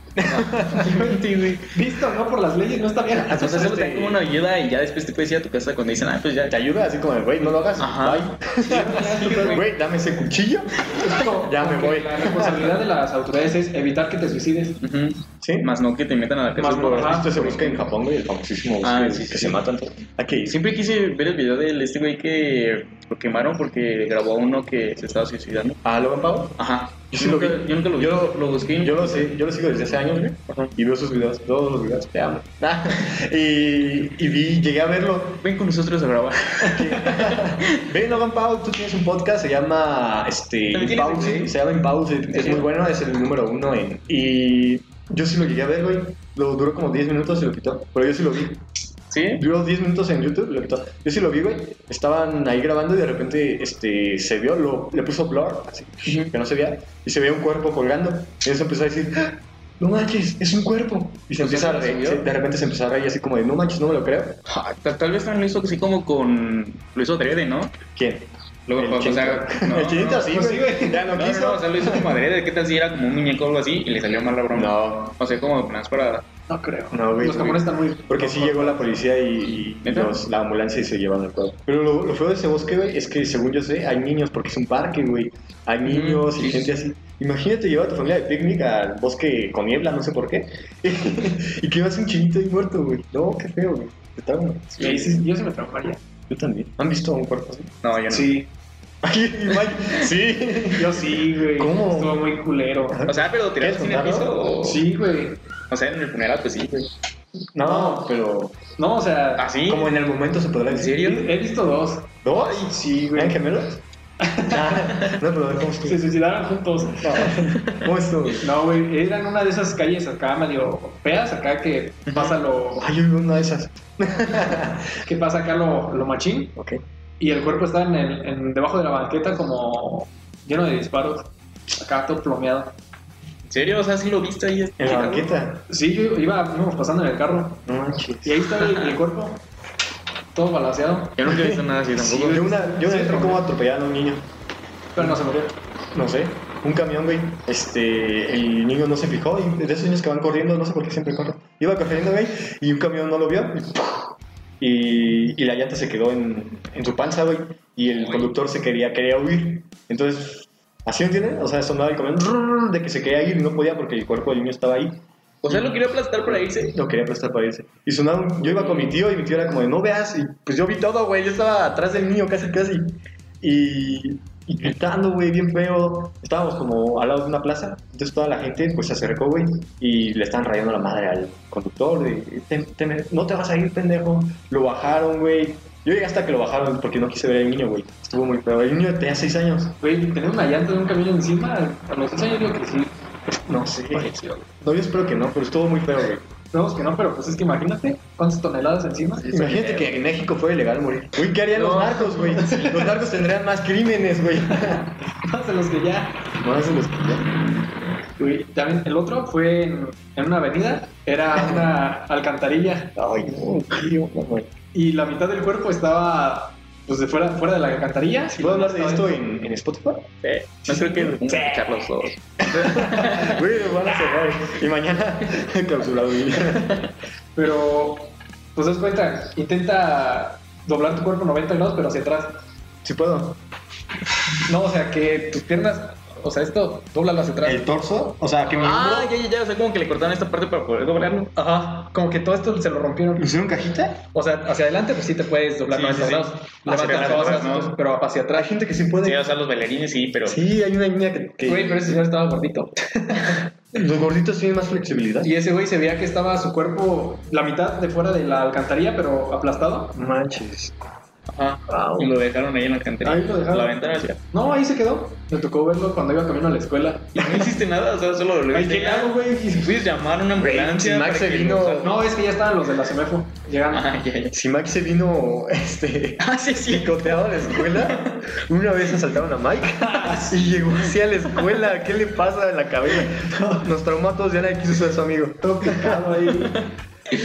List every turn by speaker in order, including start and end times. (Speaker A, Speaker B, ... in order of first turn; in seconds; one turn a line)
Speaker A: 0.2-1.0
Speaker B: 0.2-1.7
Speaker C: 0.8-1.2
Speaker C: 1.7-3.8
Speaker A: 3.2-4.2
Speaker B: 3.3-6.5
Speaker A: 6.5-12.8
Speaker B: 7.8-9.6
Speaker C: 8.6-9.6
Speaker C: 10.9-14.8
Speaker B: 14.8-17.8
Speaker A: 15.4-15.7
Speaker C: 16.6-17.3
Speaker A: 16.7-20.6
Speaker B: 18.8-19.6
Speaker B: 20.4-25.8
Speaker A: 25.8-26.6
Speaker B: 26.6-29.2
Speaker A: 27.1-35.4
Speaker B: 30.5-30.7
Speaker B: 35.4-37.9
Speaker A: 36.6-48.6
Speaker B: 40.7-41.6
Speaker B: 42.3-42.7
Speaker B: 49.1-49.4
Speaker A: 49.3-64.4
Speaker B: 56.0-56.3
Speaker B: 61.4-62.2
Speaker B: 64.5-67.8
Speaker A: 67.9-72.1
Speaker B: 68.7-70.3
Speaker C: 70.3-71.1
Speaker B: 71.1-76.2
Speaker A: 74.5-75.1
Speaker C: 76.5-78.9
Speaker A: 76.9-95.2
Speaker B: 79.8-80.2
Speaker B: 85.8-86.7
Speaker B: 94.8-95.1
Speaker C: 94.8-96.0
Speaker A: 96.3-97.7
Speaker B: 97.8-98.4
Speaker C: 98.1-98.5
Speaker A: 99.0-102.3
Speaker C: 100.7-103.0
Speaker A: 102.9-104.4
Speaker B: 103.0-104.8
Speaker C: 104.6-105.4
Speaker B: 105.7-106.9
Speaker A: 107.5-108.6
Speaker C: 107.6-108.1
Speaker C: 108.8-109.5
Speaker B: 109.4-109.9
Speaker A: 109.7-111.0
Speaker B: 110.7-111.3
Speaker C: 110.8-113.4
Speaker A: 112.2-113.8
Speaker C: 114.2-115.1
Speaker A: 114.4-116.0
Speaker C: 115.8-117.5
Speaker A: 117.0-118.5
Speaker C: 118.4-122.9
Speaker B: 122.1-122.4
Speaker A: 122.2-125.0
Speaker C: 124.9-126.5
Speaker A: 126.5-126.8
Speaker C: 127.2-132.7
Speaker B: 133.5-135.3
Speaker A: 134.8-135.7
Speaker C: 135.7-137.6
Speaker A: 137.7-138.4
Speaker C: 138.2-139.4
Speaker C: 140.3-141.2
Speaker B: 141.2-142.4
Speaker A: 141.2-144.2
Speaker C: 142.0-143.5
Speaker C: 144.9-145.5
Speaker A: 145.0-145.4
Speaker A: 145.9-165.0
Speaker B: 157.9-158.3
Speaker B: 165.4-166.7
Speaker A: 166.3-189.8
Speaker B: 168.4-168.9
Speaker C: 189.8-192.9
Speaker A: 193.3-196.2
Speaker C: 193.9-194.4
Speaker C: 196.5-199.3
Speaker B: 199.2-199.9
Speaker A: 199.3-204.9
Speaker B: 201.6-202.4
Speaker C: 201.6-203.0
Speaker C: 204.6-206.4
Speaker A: 206.4-207.2
Speaker C: 208.2-212.9
Speaker A: 211.3-211.8
Speaker A: 212.9-214.5
Speaker C: 214.7-219.2
Speaker A: 218.3-220.1
Speaker B: 220.2-223.3
Speaker A: 220.7-221.2
Speaker C: 221.3-221.8
Speaker A: 222.4-226.9
Speaker C: 227.3-232.3
Speaker A: 232.8-233.4
Speaker C: 234.4-237.7
Speaker A: 237.4-239.1
Speaker B: 238.6-241.3
Speaker A: 241.4-241.9
Speaker C: 241.4-243.3
Speaker A: 243.2-244.0
Speaker C: 244.1-248.6
Speaker B: 245.7-247.7
Speaker A: 246.7-247.6
Speaker A: 248.3-249.2
Speaker B: 249.0-250.4
Speaker A: 250.3-252.0
Speaker C: 251.4-253.5
Speaker A: 253.7-255.3
Speaker C: 255.2-260.0
Speaker A: 259.9-260.7
Speaker B: 261.3-264.2
Speaker A: 261.7-262.1
Speaker C: 263.0-267.3
Speaker B: 267.1-272.0
Speaker C: 268.5-269.8
Speaker A: 270.3-272.0
Speaker C: 271.8-273.9
Speaker B: 273.7-274.3
Speaker A: 274.3-286.1
Speaker B: 276.2-278.3
Speaker C: 279.8-280.5
Speaker C: 283.3-283.7
Speaker C: 285.4-286.7